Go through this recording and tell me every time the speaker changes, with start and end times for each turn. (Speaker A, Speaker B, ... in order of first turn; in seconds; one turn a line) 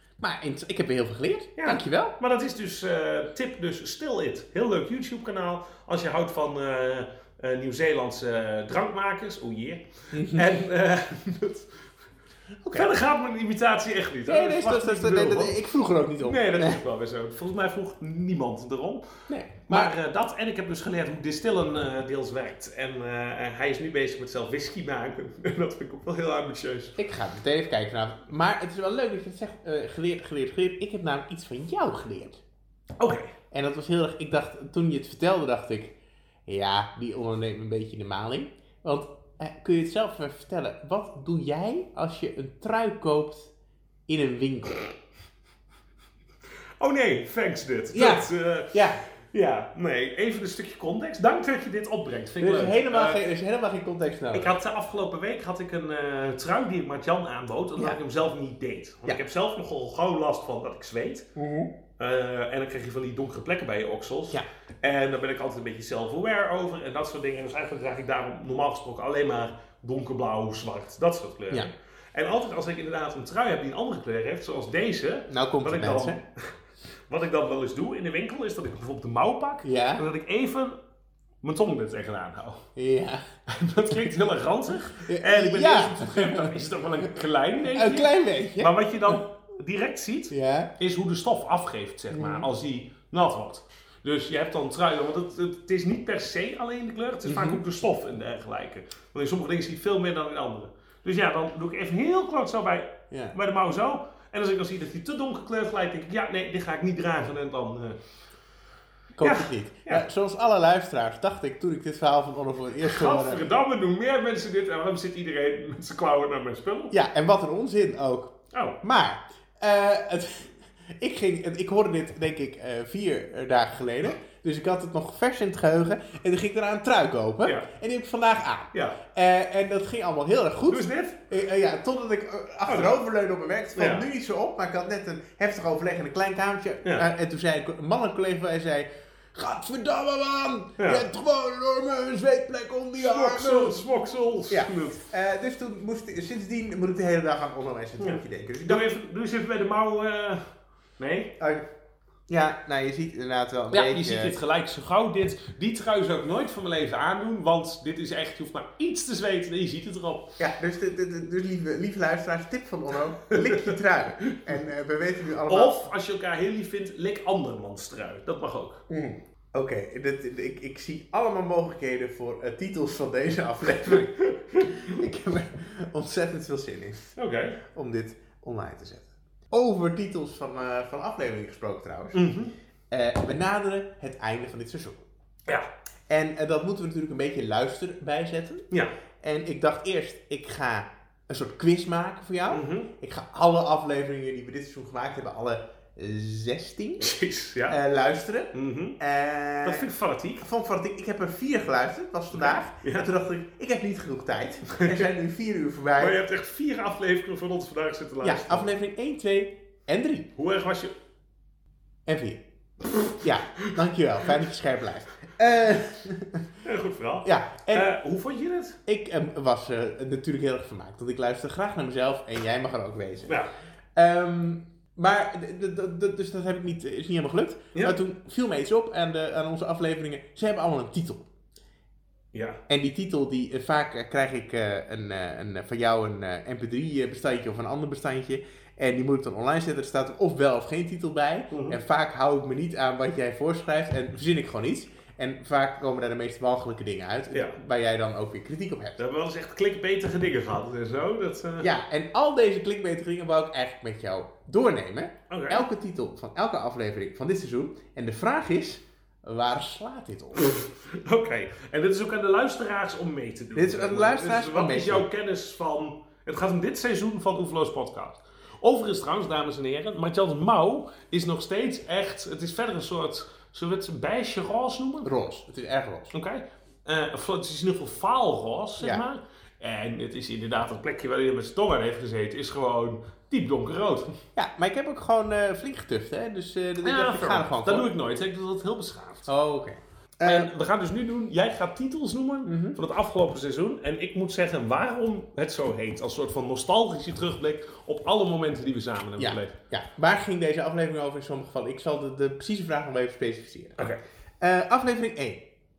Speaker A: 0.2-2.1
Speaker B: 1.6-11.8
Speaker A: 10.1-10.5
Speaker A: 12.6-12.9
Speaker B: 12.7-15.6
Speaker A: 14.2-16.8
Speaker B: 16.2-27.0
Speaker A: 19.3-19.9
Speaker A: 27.0-32.4
Speaker B: 33.0-33.3
Speaker A: 33.5-35.9
Speaker A: 36.5-43.5
Speaker A: 44.1-44.8
Speaker B: 46.8-53.2
Speaker A: 47.9-49.0
Speaker A: 52.4-54.5
Speaker B: 54.3-61.3
Speaker A: 61.4-61.7
Speaker B: 62.0-76.5
Speaker A: 75.3-76.2
Speaker B: 77.1-80.8
Speaker A: 79.6-80.0
Speaker B: 81.4-82.7
Speaker A: 82.8-83.2
Speaker B: 83.5-108.0
Speaker A: 84.9-86.7
Speaker A: 87.6-89.2
Speaker A: 90.3-90.7
Speaker A: 92.1-92.5
Speaker A: 97.2-97.6
Speaker A: 103.1-103.3
Speaker A: 109.2-113.5
Speaker B: 109.2-110.0
Speaker B: 112.8-116.9
Speaker A: 116.9-143.9
Speaker B: 118.5-118.8
Speaker B: 128.7-129.0
Speaker B: 130.7-131.2
Speaker B: 132.7-132.9
Speaker B: 133.8-134.1
Speaker B: 140.8-141.0
Speaker B: 143.0-145.0
Speaker A: 144.5-148.9
Speaker B: 148.0-150.5
Speaker B: 151.0-151.3
Speaker A: 151.4-151.7
Speaker A: 152.3-154.3
Speaker B: 153.7-160.3
Speaker A: 160.4-165.8
Speaker B: 163.3-164.4
Speaker B: 165.5-168.8
Speaker A: 168.9-177.1
Speaker B: 177.2-177.6
Speaker A: 177.7-182.3
Speaker B: 182.1-182.5
Speaker A: 182.9-185.0
Speaker A: 186.1-188.7
Speaker A: 189.2-197.1
Speaker B: 192.5-192.9
Speaker B: 197.0-197.8
Speaker A: 197.7-199.9
Speaker B: 198.5-199.0
Speaker B: 199.6-200.4
Speaker A: 200.4-206.2
Speaker B: 202.3-203.1
Speaker B: 204.7-205.1
Speaker B: 206.0-208.7
Speaker A: 208.2-210.3
Speaker B: 210.3-210.9
Speaker A: 212.1-212.4
Speaker A: 213.1-216.4
Speaker B: 216.6-218.8
Speaker A: 217.2-217.9
Speaker A: 218.8-223.4
Speaker A: 223.9-231.2
Speaker B: 232.3-232.6
Speaker A: 232.7-249.0
Speaker B: 241.5-241.8
Speaker B: 247.3-247.6
Speaker B: 249.0-251.7
Speaker A: 251.6-260.5
Speaker B: 255.3-255.7
Speaker B: 260.4-275.1
Speaker A: 263.5-265.1
Speaker A: 275.0-276.1
Speaker B: 276.1-284.1
Speaker A: 284.3-287.9
Speaker B: 286.8-289.3
Speaker A: 289.3-290.5
Speaker B: 290.2-299.5
Speaker A: 292.4-292.8
Speaker A: 299.2-303.8
Speaker A: 304.4-305.4